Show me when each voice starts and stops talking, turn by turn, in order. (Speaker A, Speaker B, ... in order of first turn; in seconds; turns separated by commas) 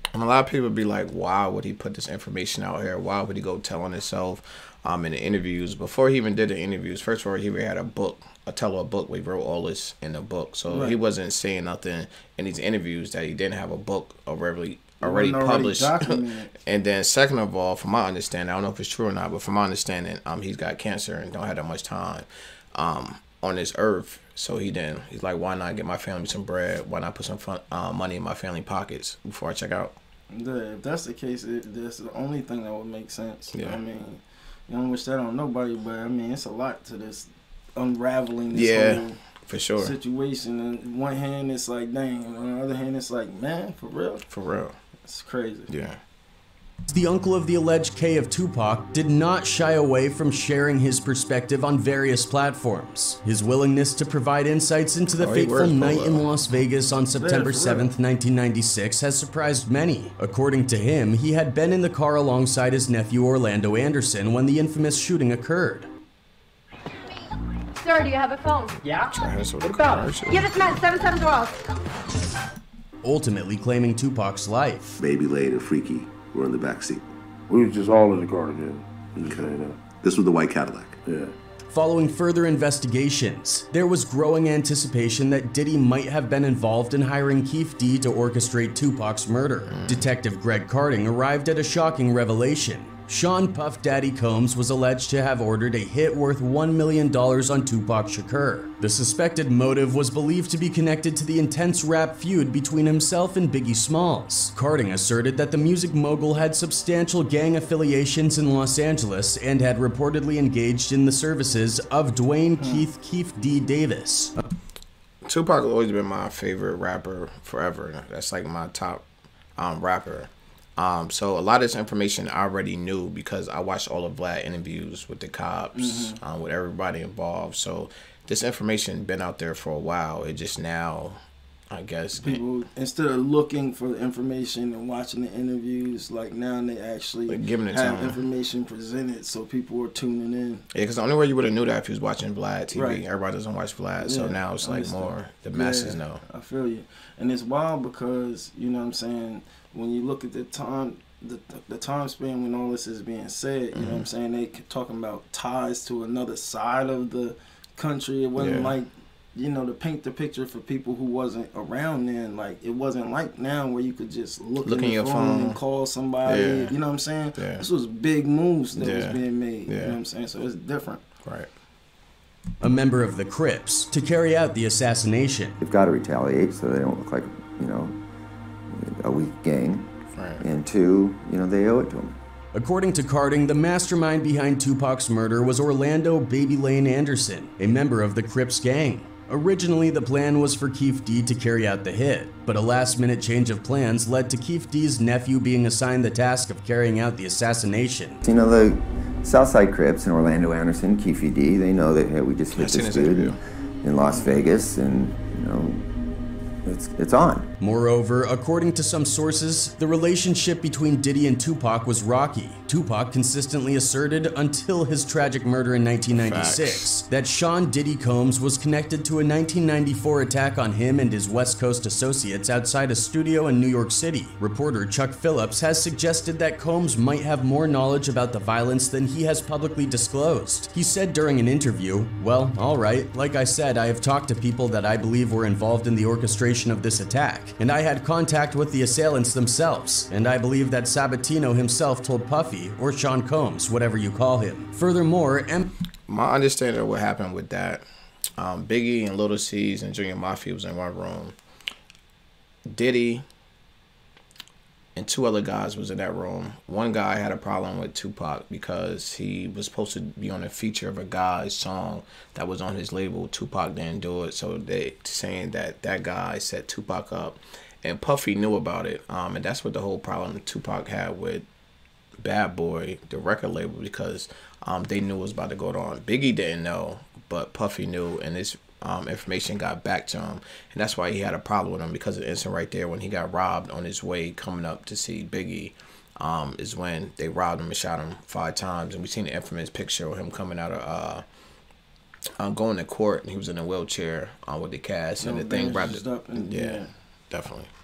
Speaker A: 0.1-29.9, Speaker B: 10.7-11.0, Speaker B: 15.0-16.5, Speaker B: 30.3-39.2, Speaker A: 33.5-33.8, Speaker A: 38.5-40.0, Speaker B: 39.8-44.2, Speaker A: 44.3-44.8, Speaker B: 45.0-45.7, Speaker A: 45.7-46.0, Speaker C: 46.9-65.9, Speaker A: 55.2-56.2, Speaker B: 57.1-57.9, Speaker D: 67.8-71.6, Speaker A: 69.0-70.5, Speaker C: 73.0-75.0, Speaker E: 75.0-77.1, Speaker F: 77.5-79.8, Speaker E: 79.9-81.0, Speaker F: 81.0-81.3, Speaker C: 81.7-114.3, Speaker A: 89.7-90.1, Speaker B: 112.6-112.8, Speaker A: 115.2-119.0, Speaker A: 119.5-131.2, Speaker B: 125.7-126.2, Speaker A: 131.7-132.4, Speaker B: 132.1-140.6, Speaker A: 137.3-138.2, Speaker A: 140.7-146.2, Speaker B: 142.7-143.0, Speaker B: 144.0-171.0, Speaker A: 153.7-154.1, Speaker A: 158.3-158.7, Speaker A: 164.6-165.6, Speaker A: 166.2-166.8, Speaker A: 167.3-167.7, Speaker A: 168.8-170.0, Speaker C: 172.6-175.6, Speaker G: 175.6-178.0, Speaker G: 178.7-179.9, Speaker A: 180.1-180.4, Speaker G: 180.4-182.2, Speaker C: 182.5-198.2, Speaker G: 198.2-205.9, Speaker A: 202.5-203.4, Speaker B: 204.1-204.3, Speaker G: 206.6-207.5, Speaker C: 207.6-245.7, Speaker A: 216.1-216.9, Speaker A: 246.1-247.8, Speaker A: 248.4-251.3, Speaker A: 252.7-253.2, Speaker A: 254.9-271.4, Speaker A: 272.2-291.2, Speaker A: 292.4-297.7, Speaker B: 295.2-296.9